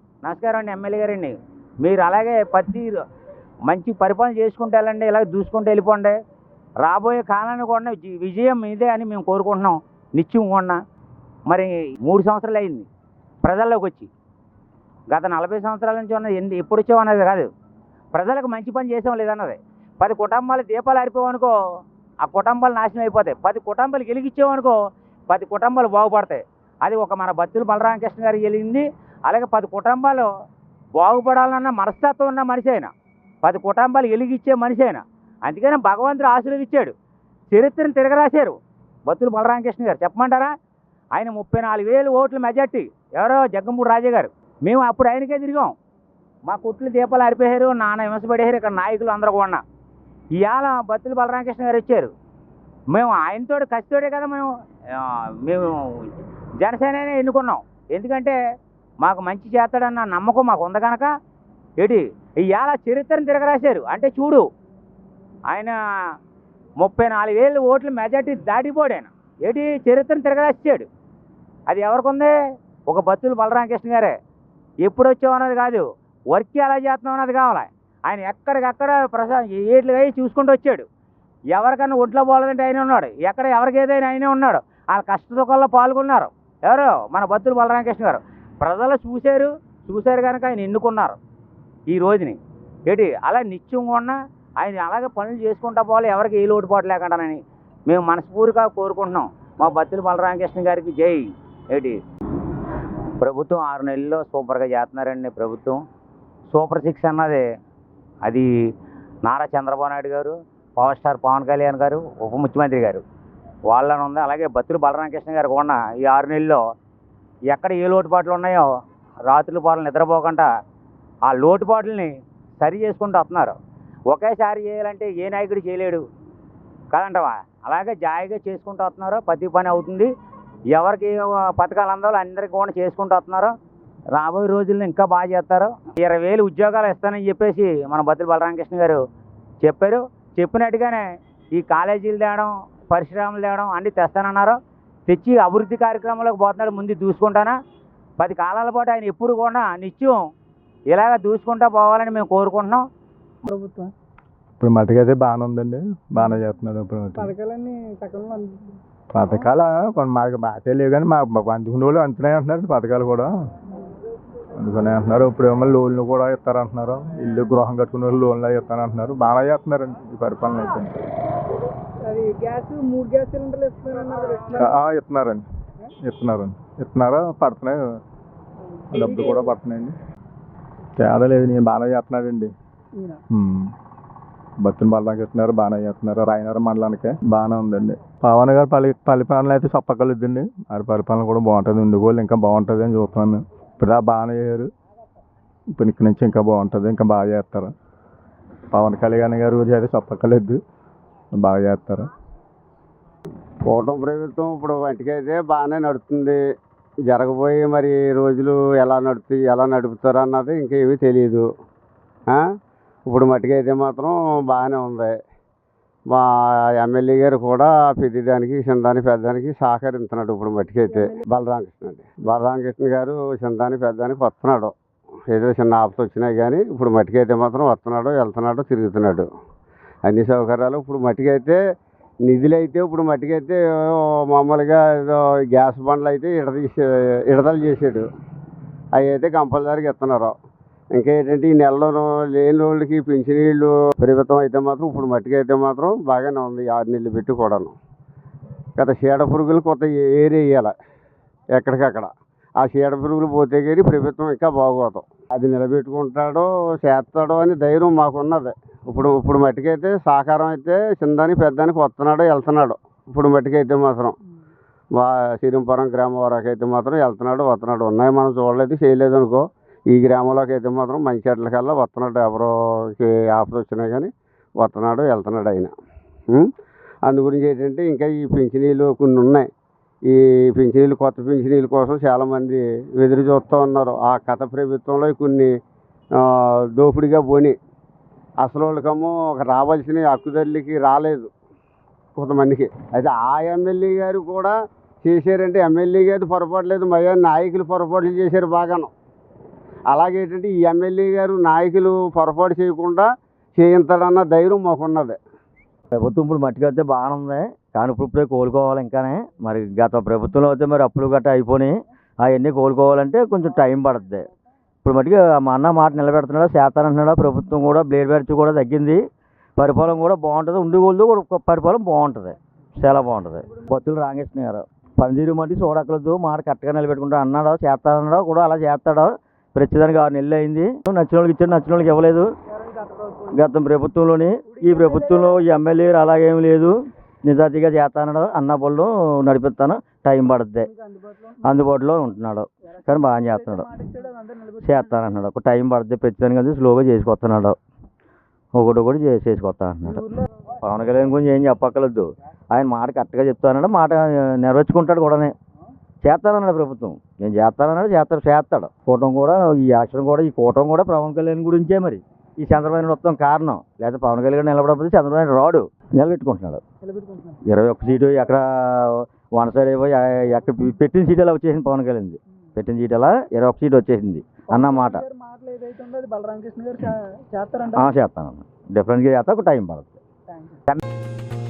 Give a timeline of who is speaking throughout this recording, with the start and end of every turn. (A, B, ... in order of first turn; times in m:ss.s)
0:00.2-0:02.9 A
0:03.7-0:06.2 A
0:06.8-0:10.8 A
0:11.5-0:12.9 A
0:13.4-0:14.1 A
0:15.1-0:17.5 A
0:18.1-0:21.5 A
0:22.2-0:24.8 A
0:25.3-0:30.3 A
0:31.0-0:32.9 A
0:33.4-0:36.9 A
0:37.5-0:40.5 A
0:41.1-0:45.7 A
0:46.5-0:49.6 A
0:50.3-0:52.1 A
0:52.9-0:58.4 A
0:59.0-1:01.1 A
1:01.8-1:04.4 A
1:05.5-1:05.8 A
1:06.8-1:10.9 A
1:11.7-1:12.3 A
1:12.9-1:14.2 A
1:14.8-1:20.8 A
1:21.5-1:31.2 A
1:31.9-1:42.0 A
1:43.2-1:45.8 A
1:46.5-1:47.4 A
1:49.2-1:53.0 A
1:53.7-1:56.6 A
1:57.5-1:58.7 A
1:59.3-2:00.5 A
2:01.3-2:03.6 A
2:04.1-2:06.0 A
2:06.9-2:10.1 A
2:10.7-2:13.5 A
2:14.1-2:19.0 A
2:19.6-2:21.0 A
2:21.6-2:24.6 A
2:25.1-2:27.6 A
2:28.2-2:30.2 A
2:30.9-2:32.8 A
2:33.5-2:33.9 B
2:34.6-2:37.3 C
2:37.2-2:38.8 B
2:39.1-2:43.3 C
2:44.5-2:51.0 C
2:52.0-2:54.7 B
2:54.6-2:55.4 C
2:56.0-2:57.8 C
2:58.9-2:59.5 B
2:58.9-3:00.0 C
3:01.0-3:02.5 C
3:03.0-3:03.2 B
3:03.3-3:03.7 C
3:04.6-3:14.7 C
3:15.7-3:17.7 C
3:18.7-3:20.6 C
3:21.3-3:22.1 C
3:23.7-3:26.4 D
3:27.1-3:31.5 D
3:33.1-3:35.1 D
3:36.1-3:44.7 D
3:45.3-3:49.3 D
3:50.1-3:51.6 D
3:52.2-3:58.1 D
3:59.0-4:00.3 D
4:00.9-4:07.8 D
4:08.8-4:10.7 D
4:11.6-4:24.2 D
4:25.0-4:35.7 D
4:37.0-4:39.5 D
4:40.1-4:45.5 D
4:46.2-4:47.6 D
4:48.4-4:51.3 D
4:52.2-4:58.9 D
4:59.9-5:05.2 D
5:05.9-5:14.3 E
5:14.8-5:19.0 E
5:19.6-5:32.3 E
5:32.6-5:33.4 B
5:33.3-5:40.7 E
5:34.5-5:35.5 B
5:40.6-5:41.4 B
5:41.4-5:43.7 E
5:42.8-5:45.0 B
5:44.6-5:47.6 E
5:48.5-5:55.3 E
5:56.0-6:06.6 E
6:06.8-6:07.4 B
6:07.5-6:15.0 E
6:14.5-6:17.9 B
6:17.7-6:20.0 E